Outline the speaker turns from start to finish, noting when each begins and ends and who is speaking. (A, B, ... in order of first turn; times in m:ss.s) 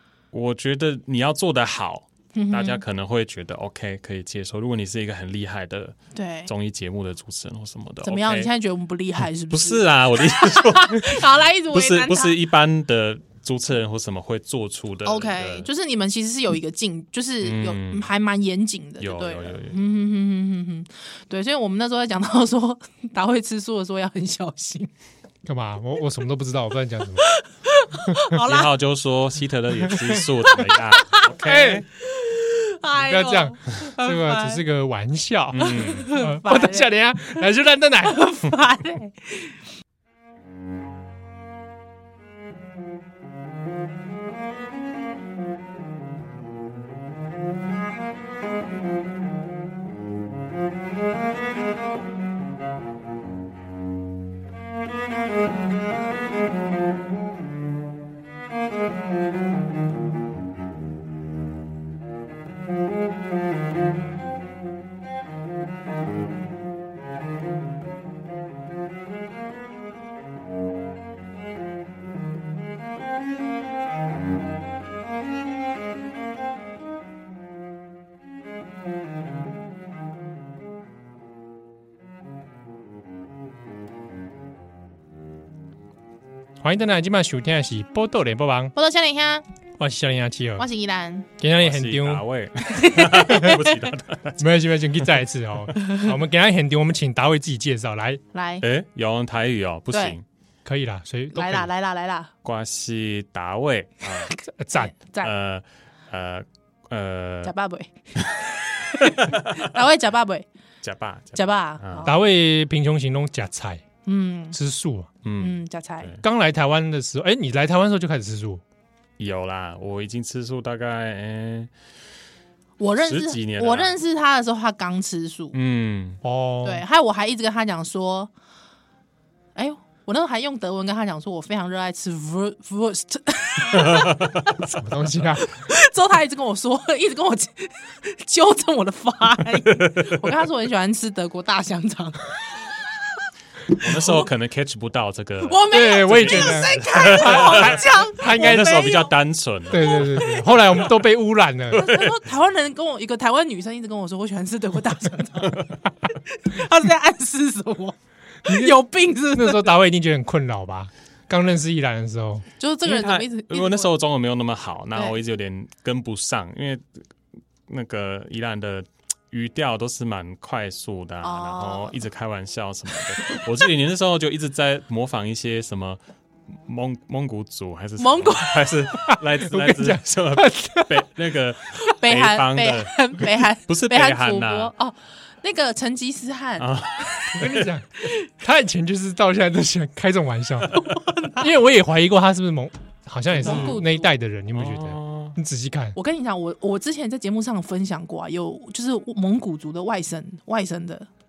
0:00.3-0:08.5 A
0:02.3-0:02.8 B
0:06.1-0:06.5 B
0:08.0-0:12.4 B
0:09.5-0:15.7 A
0:15.0-0:24.9 B
0:17.4-0:18.1 A
0:19.0-0:19.8 A
0:25.4-0:27.3 C
0:27.2-0:28.7 B
0:28.4-0:31.9 A
0:30.5-0:31.3 B
0:31.4-0:31.8 C
0:32.0-0:34.6 B
0:33.0-0:38.3 C
0:35.5-0:36.1 A
0:35.6-0:37.4 B
0:38.0-0:39.6 B
1:26.6-1:28.7 C
1:28.8-1:29.4 B
1:29.8-1:30.7 C
1:30.6-1:31.3 B
1:31.4-1:32.2 C
1:31.6-1:34.5 A
1:32.7-1:33.6 B
1:34.4-1:38.2 C
1:38.3-1:38.6 B
1:38.6-1:40.2 A
1:39.9-1:40.2 B
1:40.6-1:41.7 C
1:41.3-1:42.3 B
1:42.4-1:44.3 A
1:44.3-1:45.3 B
1:44.6-1:44.9 C
1:45.2-1:47.5 A
1:47.4-1:50.5 B
1:49.1-1:49.6 A
1:50.8-1:52.1 A
1:51.4-1:52.2 B
1:52.0-1:53.8 C
1:54.1-1:54.6 B
1:54.5-1:55.1 C
1:55.2-1:56.2 A
1:55.4-1:56.1 B
1:56.2-1:58.6 C
1:59.2-2:01.7 A
2:02.8-2:05.6 B
2:03.0-2:04.0 A
2:05.5-2:06.2 A
2:06.2-2:06.8 C
2:06.6-2:08.3 B
2:09.6-2:14.8 B
2:13.7-2:14.4 A
2:14.7-2:15.5 C
2:15.4-2:22.4 B
2:19.8-2:20.3 A
2:23.8-2:30.2 A
2:23.8-2:24.3 B
2:25.4-2:29.1 B
2:25.7-2:28.9 C
2:29.7-2:31.9 C
2:29.8-2:30.9 B
2:31.7-2:39.7 B
2:31.8-2:32.2 A
2:38.5-2:38.8 C
2:39.3-2:42.5 C
2:42.6-2:43.9 B
2:42.8-2:47.0 A
2:47.7-3:04.7 A
2:51.2-2:52.0 B
2:58.0-2:58.8 B
2:59.1-3:01.1 C
3:01.8-3:07.4 B
3:06.6-3:07.7 A
3:07.3-3:10.8 C
3:10.7-3:11.5 B
3:11.4-3:16.0 C
3:13.4-3:13.8 A
3:13.4-3:14.1 B
3:14.5-3:15.4 A
3:16.0-3:21.1 B